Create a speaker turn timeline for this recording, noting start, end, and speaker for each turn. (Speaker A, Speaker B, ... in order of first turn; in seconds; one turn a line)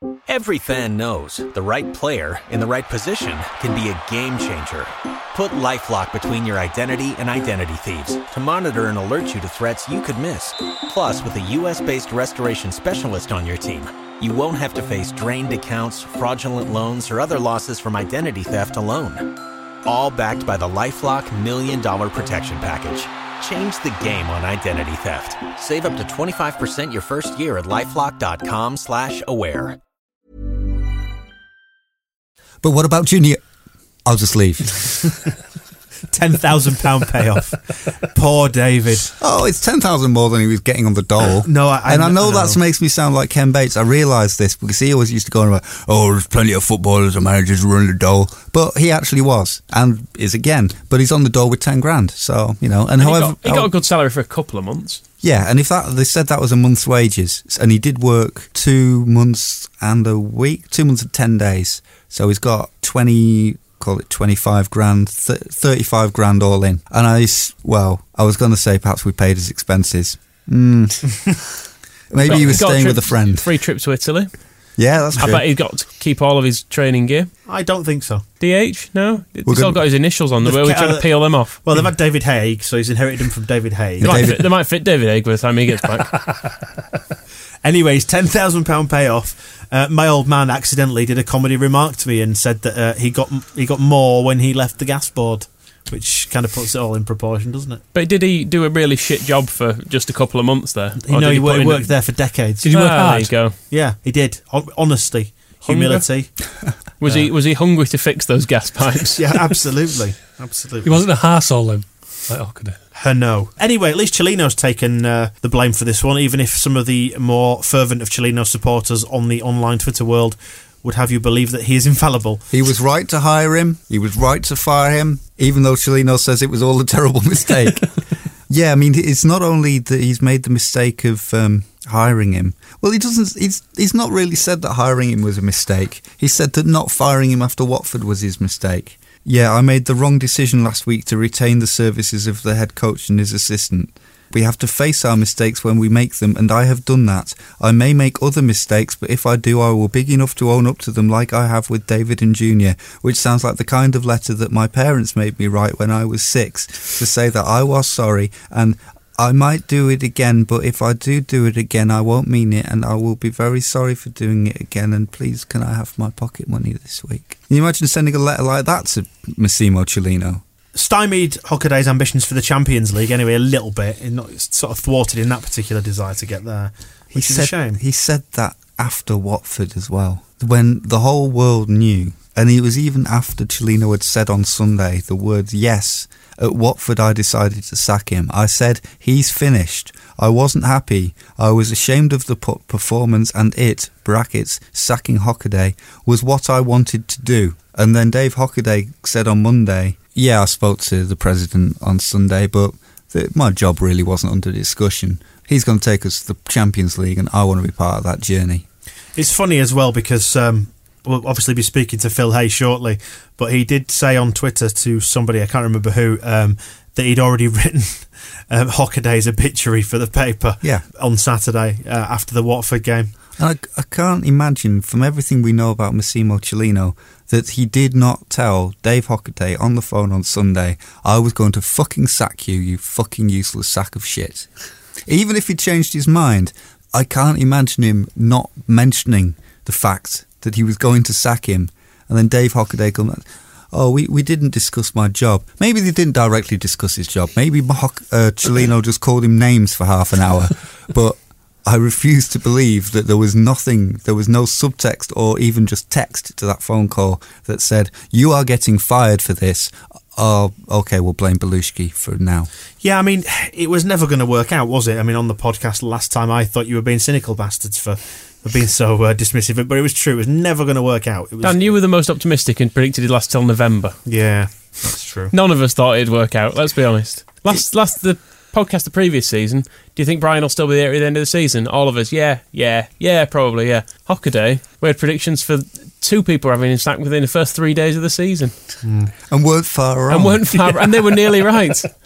Speaker A: 0.3-29.8
Speaker B: 32.6-33.4
Speaker B: 34.0-35.1
Speaker C: 36.1-39.1
Speaker B: 39.2-53.7
Speaker C: 41.4-42.6
Speaker D: 53.0-55.0
Speaker B: 55.2-71.4
Speaker B: 72.1-73.5
Speaker D: 72.2-74.3
Speaker B: 74.8-75.4
Speaker D: 75.2-77.3
Speaker C: 77.5-78.2
Speaker D: 78.4-81.6
Speaker B: 79.5-79.8
Speaker C: 80.4-84.3
Speaker B: 84.0-84.5
Speaker D: 84.0-86.2
Speaker C: 87.6-97.8
Speaker D: 97.9-101.9
Speaker C: 101.0-102.7
Speaker E: 102.6-103.3
Speaker D: 102.7-103.5
Speaker C: 103.7-106.3
Speaker D: 105.7-106.0
Speaker D: 107.0-109.2
Speaker C: 109.2-111.0
Speaker E: 110.8-112.8
Speaker C: 112.9-122.5
Speaker B: 122.5-170.4
Speaker C: 170.7-177.8
Speaker B: 177.1-208.7
Speaker C: 209.2-223.1
Speaker B: 223.4-234.5
Speaker B: 235.1-262.5
Speaker C: 262.8-271.8
Speaker D: 271.4-274.0
Speaker C: 274.1-275.3
Speaker D: 275.3-288.6
Speaker C: 288.8-289.1
Speaker B: 289.3-290.6
Speaker D: 290.1-291.9